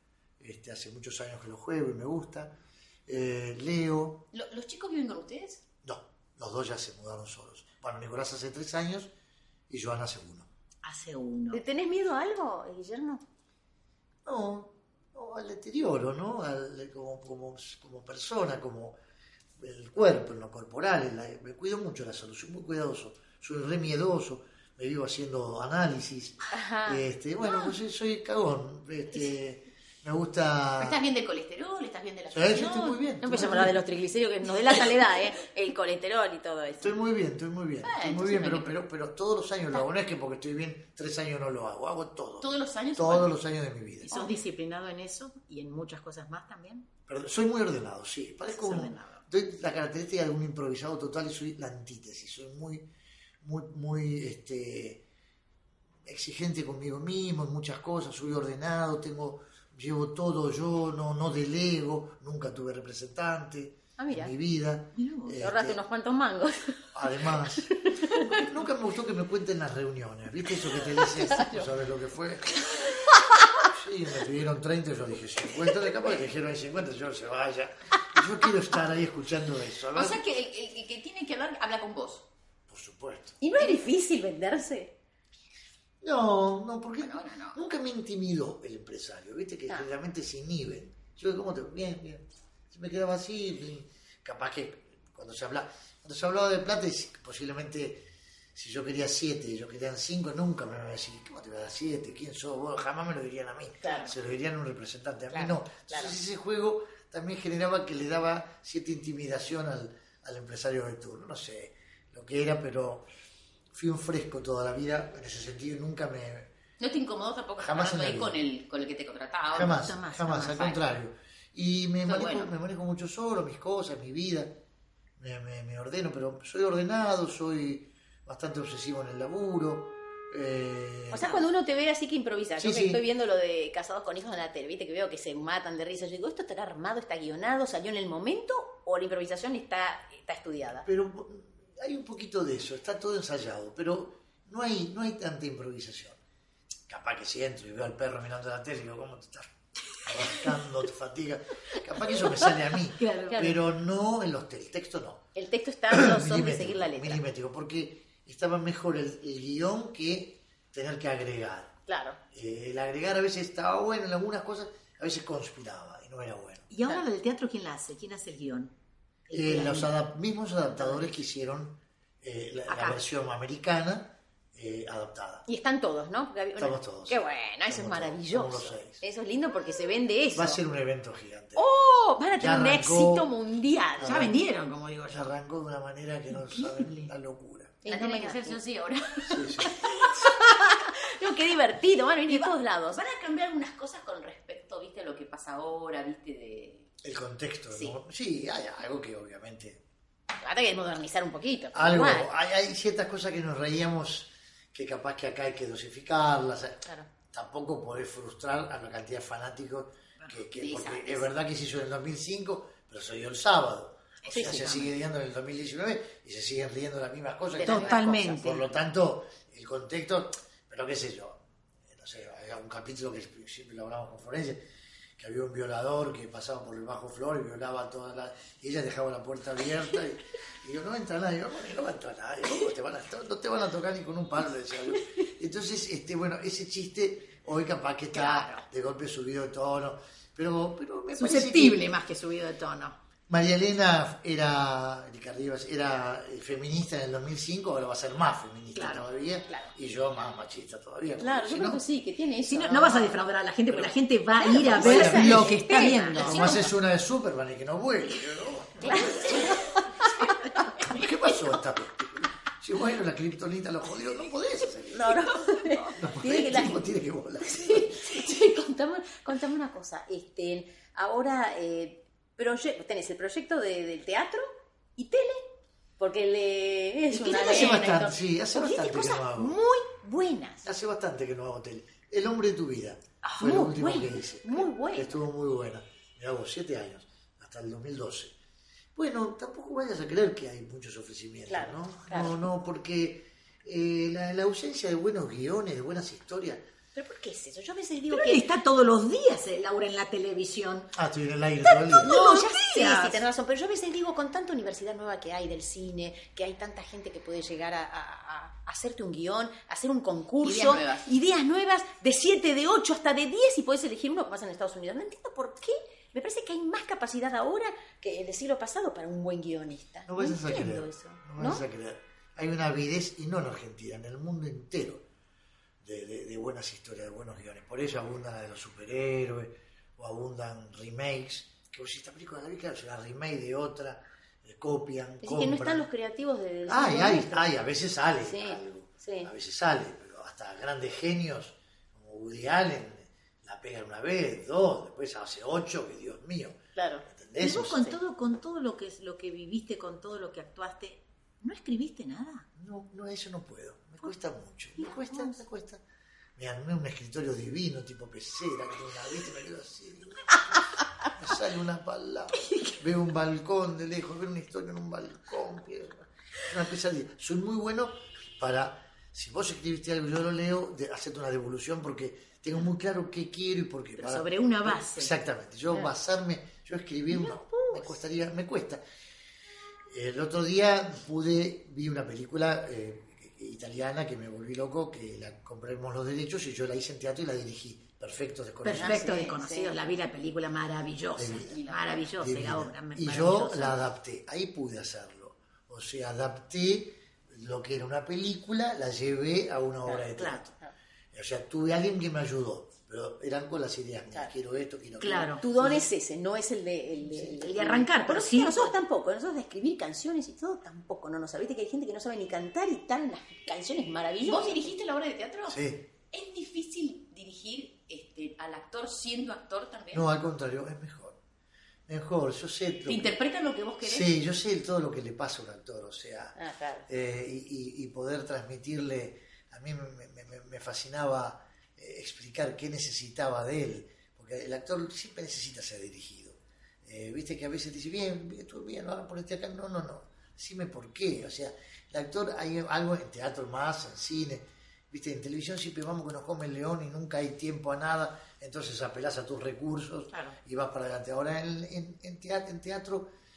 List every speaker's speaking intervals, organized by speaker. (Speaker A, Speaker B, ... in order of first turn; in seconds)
Speaker A: 0.4-2.5, 3.1-4.2, 5.8-9.1, 9.7-10.5, 14.2-19.0, 19.6-31.0, 32.3-33.8, 36.8-44.1, 47.1-52.9, 53.4-55.0, 56.0-65.8, 66.9-72.9, 73.6-80.2, 82.7-83.4, 86.0-113.1, 113.7-116.5, 117.6-118.4, 119.5-124.5, 125.2-131.4, 132.6-133.0, 140.8-146.2, 146.9-155.3, 155.9-161.7, 162.3-166.7, 169.3-175.4, 176.6-179.0, 180.3-181.6, 182.3-183.3, 184.0-184.3, 185.1-187.8, 189.3-189.8, 197.0-199.8, 201.7-224.6, 225.2-241.9, 243.3-251.8, 253.7-253.9, 254.5-259.6, 260.8-265.3, 265.9-268.1, 277.3-279.6, 280.6-288.4, 288.9-296.6, 300.9-302.1, 320.1-325.0, 325.8-335.9, 336.7-348.0, 352.6-355.8, 356.4-378.8, 379.9-389.1, 391.1-391.6, 392.2-400.6, 401.1-405.9, 415.5-415.8, 419.9-421.2, 421.9-423.2, 423.8-426.4, 426.9-453.1
Speaker B: 4.3-5.6, 30.8-33.0, 37.8-38.7, 42.4-43.3, 79.9-82.3, 87.0-87.6, 116.8-119.8, 122.1-122.5, 187.8-189.9, 192.3-196.9, 210.5-211.2, 310.4-311.1, 391.4-392.1, 414.2-415.6, 416.1-420.1, 422.9-424.1
Speaker C: 10.8-11.6, 44.1-46.9, 48.5-49.2, 65.0-65.4, 119.6-120.8, 153.0-153.5, 166.7-168.7, 169.3-169.9, 172.7-173.0, 184.0-185.3, 186.3-187.1, 214.2-214.9, 217.6-218.7, 238.1-238.7, 241.2-243.0, 248.7-249.1, 252.5-256.7, 277.4-277.7, 278.6-280.6, 283.2-283.9, 298.1-300.9, 301.8-303.2, 347.4-352.5, 354.8-355.4, 374.0-375.1, 388.6-393.9, 405.0-405.4, 407.2-408.8
Speaker D: 11.5-13.2, 26.5-27.0, 33.2-37.0, 64.0-64.3, 65.4-66.9, 67.4-68.4, 70.9-71.7, 83.4-84.9, 103.8-104.1, 105.3-106.2, 131.1-140.9, 153.3-153.6, 155.3-157.2, 161.9-162.2, 175.5-180.6, 181.6-184.2, 187.8-188.6, 189.7-193.0, 200.4-202.3, 214.3-214.7, 217.6-218.4, 251.2-253.2, 254.4-256.6, 258.9-260.5, 264.9-266.8, 267.4-278.2, 283.4-285.2, 291.5-292.4, 296.9-298.4, 302.0-321.6, 335.2-337.5, 338.2-339.3, 346.8-347.1, 377.2-377.8, 388.7-389.8, 405.4-414.7, 426.4-426.9